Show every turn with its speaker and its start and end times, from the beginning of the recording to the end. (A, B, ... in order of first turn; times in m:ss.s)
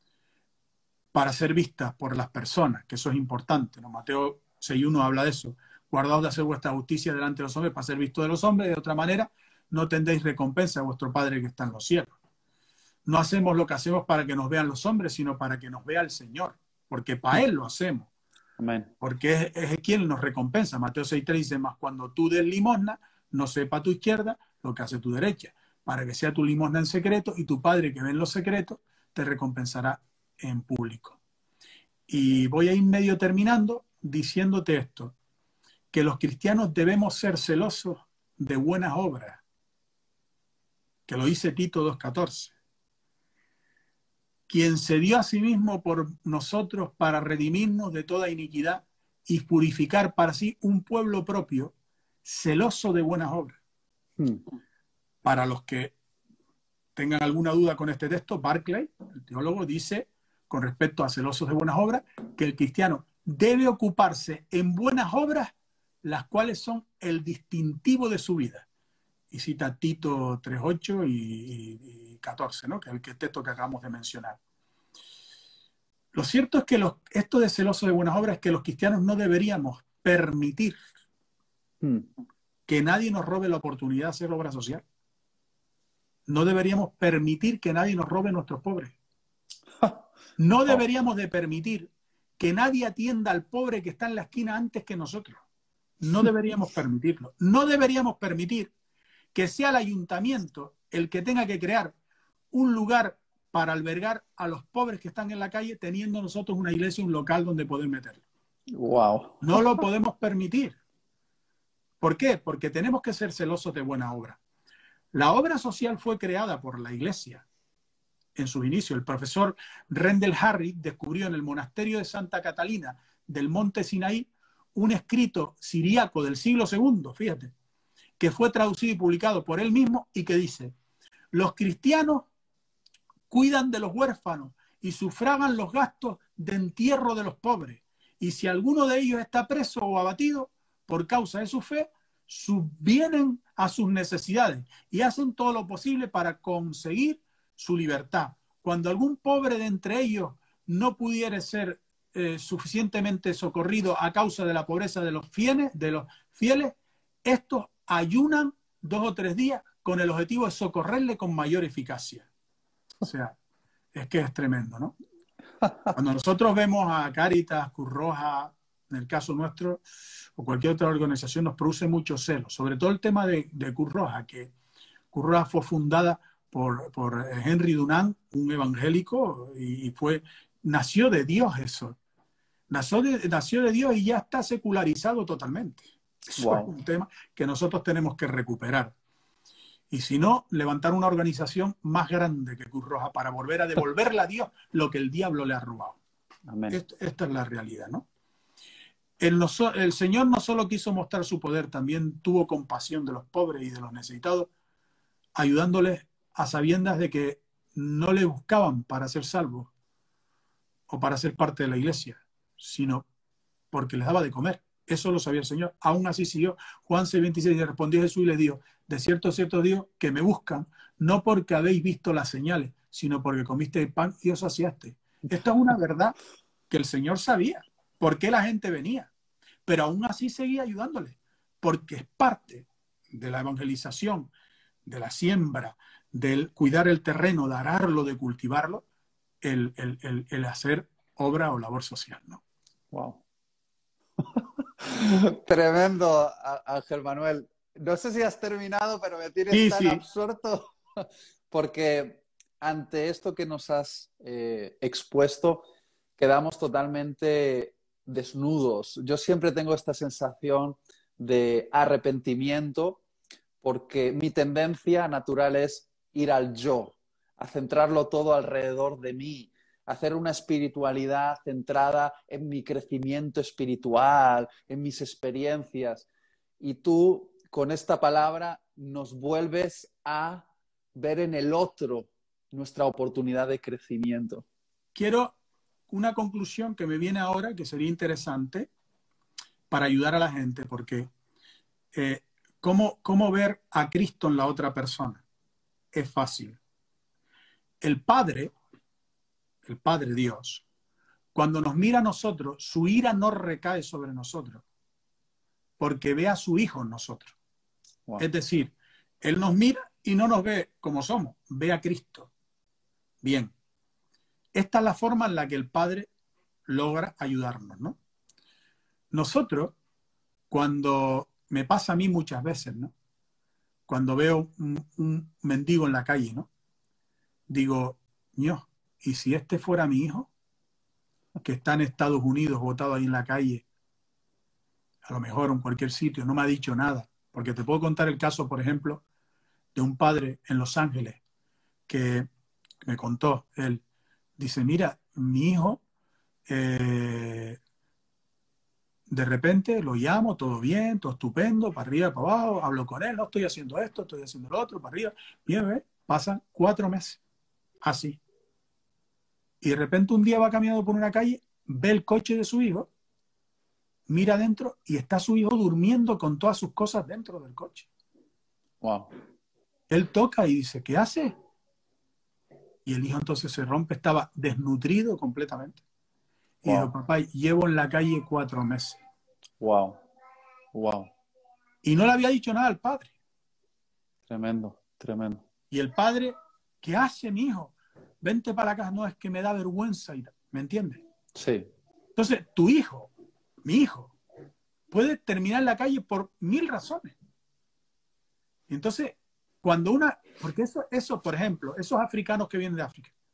0:01.1-0:12.1 A
0:13.0-0:18.1 A
0:18.6-0:18.9 B
0:19.0-0:31.2 A
0:32.1-0:35.1 A
0:35.9-0:39.4 A
0:41.1-0:42.5 A
0:44.5-0:53.6 A
0:55.2-0:55.9 A
0:57.0-1:08.6 A
1:09.3-1:14.4 A
1:16.1-1:20.8 A
1:21.8-1:22.1 B
1:22.7-1:24.8 A
1:26.3-1:28.9 A
1:30.4-1:35.4 A
1:36.0-1:38.7 A
1:39.3-1:42.0 A
1:42.5-1:48.2 A
1:48.7-1:49.6 B
1:49.4-1:50.8 A
1:52.0-1:54.4 A
1:55.1-1:57.4 A
1:58.4-2:07.5 A
2:08.2-2:10.7 A
2:11.3-2:12.3 A
2:13.3-2:42.3 A
2:43.0-2:43.4 A
2:43.9-2:45.0 A
2:45.6-2:45.9 B
2:45.9-2:49.8 A
2:50.4-2:54.5 A
2:55.1-3:02.0 A
3:02.7-3:08.9 A
3:06.4-3:06.7 B
3:09.9-3:16.0 A
3:16.5-3:16.8 B
3:16.7-3:18.0 A
3:19.2-3:24.5 A
3:25.4-3:29.7 A
3:30.9-3:33.0 A
3:33.7-3:46.2 A
3:46.7-3:49.1 A
3:49.6-3:54.3 A
3:54.8-3:58.8 A
3:59.4-4:02.4 A
4:02.9-4:03.2 B
4:04.8-4:23.0 B
4:09.5-4:10.0 A
4:23.6-4:36.1 B
4:36.6-4:44.4 B
4:44.9-4:45.3 A
4:45.9-4:48.7 A
4:49.7-4:51.1 A
4:51.9-4:55.2 A
4:55.9-4:56.6 A
4:57.8-4:58.5 A
4:59.6-5:00.6 A
5:01.3-5:04.6 A
5:05.8-5:07.3 A
5:08.2-5:12.3 A
5:13.2-5:13.5 A
5:14.5-5:16.1 A
5:16.6-5:18.0 A
5:19.1-5:19.8 A
5:20.5-5:22.9 A
5:23.9-5:26.5 A
5:27.5-5:30.3 A
5:31.4-5:33.6 A
5:35.0-5:39.0 A
5:39.7-5:41.2 A
5:41.9-5:42.3 A
5:42.8-5:43.8 A
5:44.4-5:45.8 A
5:46.5-5:47.6 A
5:49.1-5:57.2 A
5:57.8-5:58.2 A
5:59.6-6:02.9 A
6:04.1-6:07.9 A
6:08.8-6:09.1 B
6:09.9-6:11.3 A
6:12.8-6:15.8 A
6:16.6-6:19.0 A
6:16.6-6:16.9 B
6:19.6-6:20.0 B
6:20.7-6:21.1 B
6:21.8-6:23.1 A
6:24.3-6:25.4 B
6:25.7-6:31.0 A
6:31.3-6:31.7 B
6:32.2-6:33.1 A
6:33.6-6:34.1 A
6:34.9-6:37.1 A
6:38.7-6:43.1 A